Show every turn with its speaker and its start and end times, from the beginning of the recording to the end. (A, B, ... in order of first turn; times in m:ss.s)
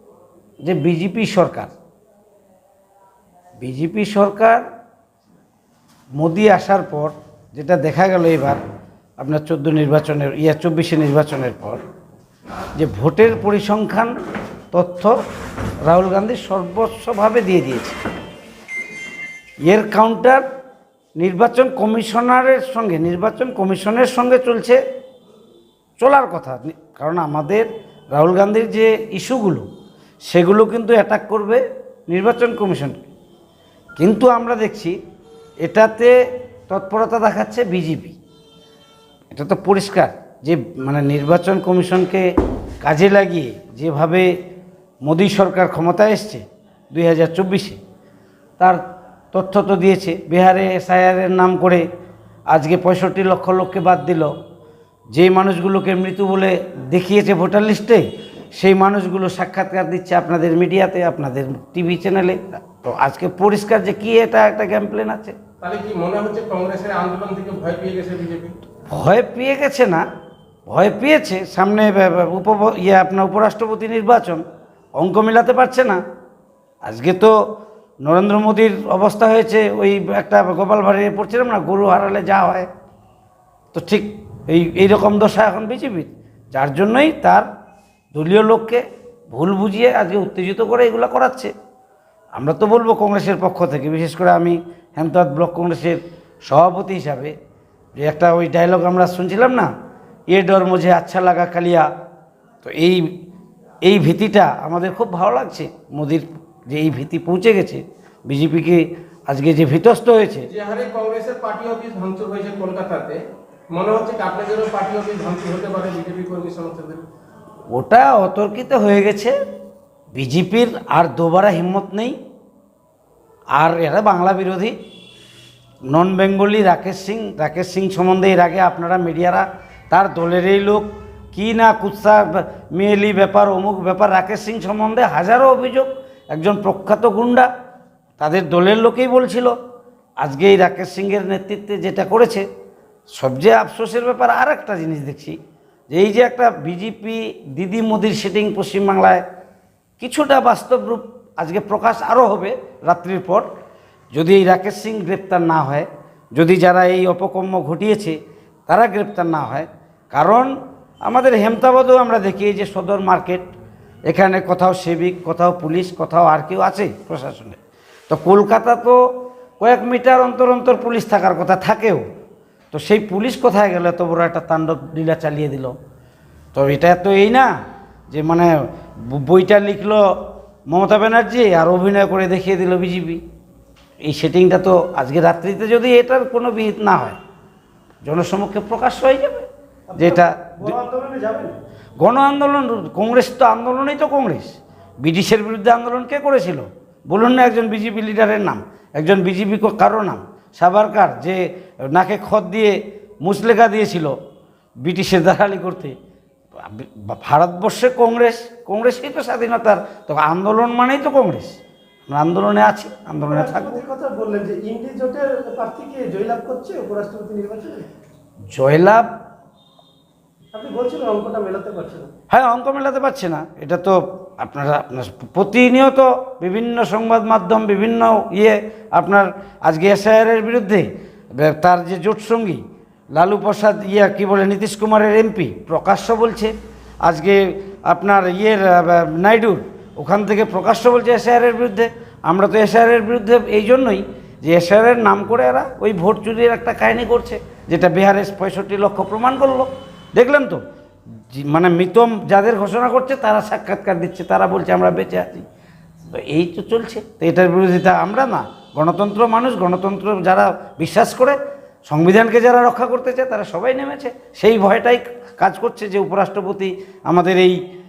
0:00.6-0:01.7 A
0:03.6-0:04.6 A
0:06.2-0:08.6 A
0:09.2-0:11.8 A
0:12.8-0:14.1 A
0:14.7-0:15.2 A
0:15.8-0:18.0 A
0:19.7-0:20.4 A
0:21.2-0:24.8 A
0:26.0-0:29.6 A
0:30.3-0:33.1 A
0:34.0-0:35.0 A
0:35.6-0:36.1 A
0:36.7-0:38.2 A
0:39.3-0:42.2 A
0:42.8-0:44.3 A
0:45.0-0:47.8 A
0:49.3-0:51.8 A
0:52.5-0:54.3 A
0:55.1-0:58.0 A
0:58.6-1:05.4 A
1:05.6-1:08.5 B
1:08.9-1:10.0 A
1:10.7-1:14.4 A
1:15.0-1:16.0 A
1:16.8-1:17.3 A
1:18.0-1:22.7 A
1:23.7-1:27.5 A
1:28.1-1:31.5 A
1:32.4-1:37.3 A
1:38.0-1:39.7 A
1:40.3-1:41.9 A
1:42.6-1:43.0 A
1:43.8-1:50.5 A
1:50.5-1:57.0 B
1:57.7-1:59.3 A
2:00.1-2:02.2 A
2:03.6-2:04.8 A
2:05.9-2:17.5 A
2:18.2-2:19.6 A
2:20.2-2:22.4 A
2:23.2-2:25.4 A
2:25.9-2:29.2 A
2:30.0-2:33.5 A
2:34.1-2:38.2 A
2:38.7-2:40.5 A
2:41.1-2:43.4 A
2:44.1-2:47.6 A
2:48.1-2:49.0 A
2:49.6-2:52.0 A
2:52.7-2:55.7 A
2:56.6-2:57.5 A
2:58.1-3:00.0 A
3:00.7-3:03.2 A
3:04.0-3:07.2 A
3:08.0-3:09.5 A
3:09.9-3:11.5 C
3:10.0-3:10.8 A
3:12.0-3:24.1 A
3:24.8-3:26.0 A
3:26.6-3:31.6 A
3:32.1-3:33.8 A
3:33.3-3:37.8 C
3:38.5-3:39.1 A
3:40.5-3:42.1 C
3:42.3-3:52.6 A
3:53.2-3:56.5 A
3:57.1-4:10.6 A
4:11.3-4:15.4 A
4:16.1-4:21.4 A
4:21.9-4:27.6 A